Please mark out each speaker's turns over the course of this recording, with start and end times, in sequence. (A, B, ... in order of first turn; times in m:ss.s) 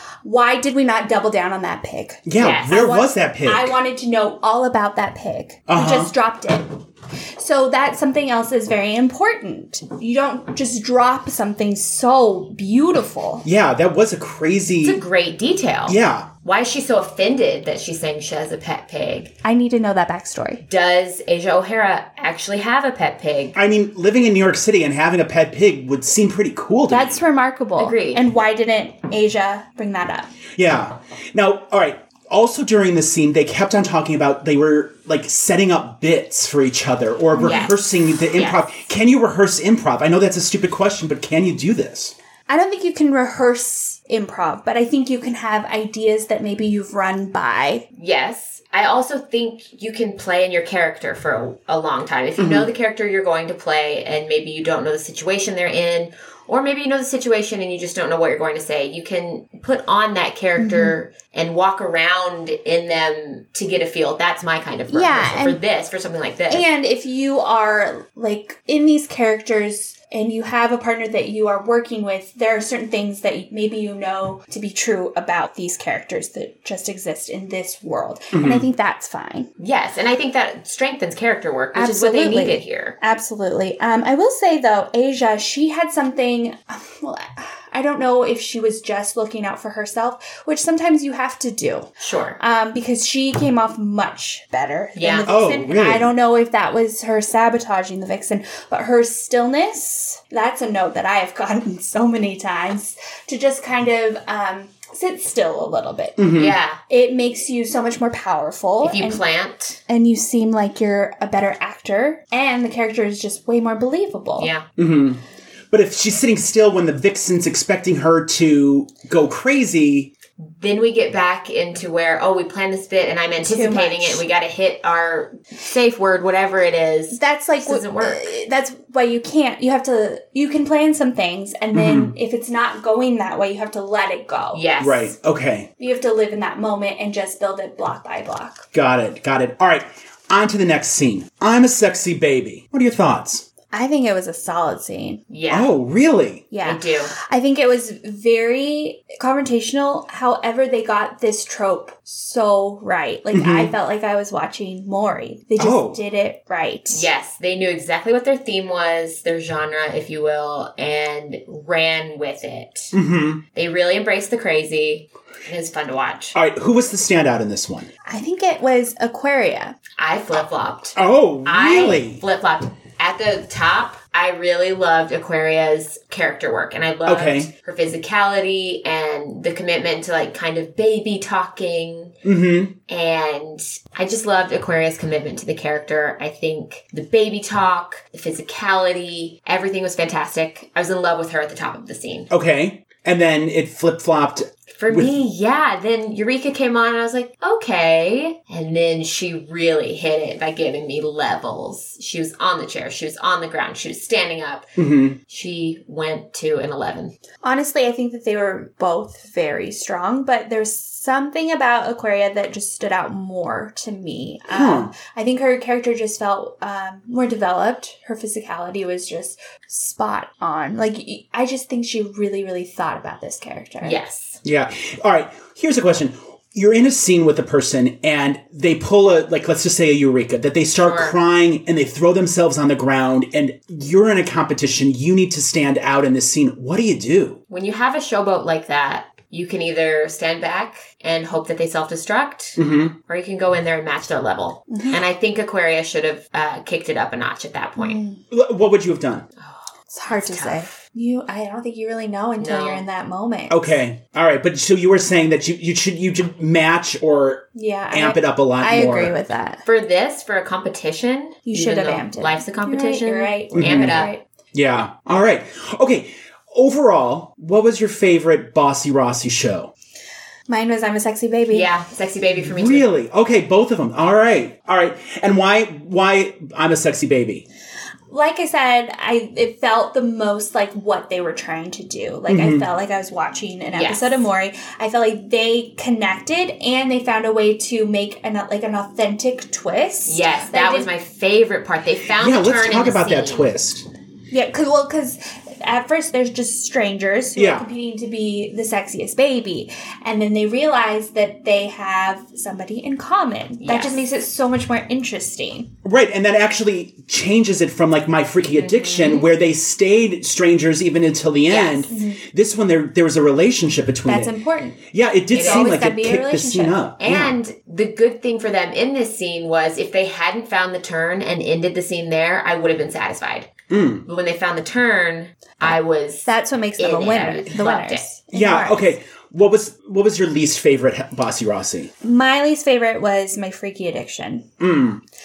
0:00.2-0:06.8 A
0:02.3-0:03.8 B
0:02.4-0:02.7 C
0:05.7-0:06.1 B
0:07.4-0:13.5 A
0:13.4-0:15.0 B
0:14.8-0:19.3 C
0:15.9-0:16.3 B
0:19.4-0:20.6 A
0:20.7-0:23.6 C
0:23.6-0:27.2 B
0:26.9-0:30.3 A
0:27.8-0:28.2 C
0:30.6-0:42.1 B
0:37.3-0:37.7 A
0:37.4-0:37.8 C
0:38.3-0:38.7 C
0:42.5-0:47.8 A
0:48.0-1:06.7 C
0:52.4-0:52.7 B
1:00.6-1:01.0 A
1:04.9-1:05.6 A
1:06.5-1:19.5 A
1:18.3-1:18.7 B
1:19.6-1:23.0 C
1:21.8-1:46.3 A
1:32.0-1:32.4 C
1:35.0-1:35.3 C
1:35.3-1:36.1 B
1:46.2-1:46.6 B
1:46.4-1:46.8 C
1:46.9-1:49.2 A
1:48.8-1:49.8 C
1:49.9-1:54.5 A
1:54.4-1:54.7 C
1:54.8-2:00.1 B
2:00.4-2:08.3 C
2:03.4-2:04.2 A
2:07.1-2:14.6 A
2:11.7-2:12.1 B
2:14.5-2:15.1 C
2:14.8-2:15.7 B
2:15.8-2:18.6 A
2:18.7-2:23.5 B
2:23.7-2:25.2 A
2:25.3-2:25.7 C
2:25.5-2:26.4 B
2:26.5-2:37.1 A
2:26.6-2:27.2 C
2:33.3-2:33.7 B
2:35.6-2:36.0 B
2:36.9-2:42.9 C
2:42.9-2:43.4 B
2:43.5-2:46.4 C
2:46.3-2:47.9 B
2:48.1-2:49.8 A
2:50.0-3:02.2 C
2:51.0-2:52.2 B
2:57.0-2:57.5 B
3:02.2-3:02.8 B
3:02.9-3:12.3 C
3:12.3-3:15.2 B
3:14.8-3:24.8 C
3:24.8-3:25.2 B
3:25.3-3:27.2 C
3:27.4-3:44.0 A
3:34.5-3:34.9 B
3:43.8-3:44.4 C
3:44.4-3:57.4 B
3:50.8-3:51.2 C
3:57.5-4:08.0 C
4:02.6-4:03.0 B
4:04.7-4:05.0 A
4:07.8-4:08.2 A
4:08.3-4:09.3 B
4:09.4-4:10.7 C
4:09.9-4:13.6 A
4:12.4-4:12.8 C
4:13.5-4:19.2 B
4:17.6-4:19.6 A
4:19.6-4:24.1 C
4:21.5-4:24.2 A
4:23.5-4:24.0 B
4:24.5-4:29.7 B
4:30.5-4:31.7 A
4:31.5-4:32.9 C
4:32.4-4:37.5 B
4:38.1-4:50.9 A
4:42.3-4:42.7 B
4:43.7-4:44.3 C
4:50.1-4:53.5 C
4:52.2-4:53.9 B
4:54.3-5:05.7 A
4:57.4-4:57.7 B
5:03.6-5:04.0 C
5:05.8-5:14.3 B
5:08.6-5:09.3 C
5:11.5-5:11.9 C
5:11.9-5:12.2 A
5:14.1-5:14.8 A
5:14.9-5:17.4 B
5:15.3-5:16.8 A
5:15.3-5:15.8 C
5:17.0-5:23.5 C
5:23.7-5:24.0 B
5:24.0-5:28.1 C
5:26.3-5:28.9 A
5:28.3-5:31.9 B
5:32.0-5:34.5 A
5:34.6-5:35.0 B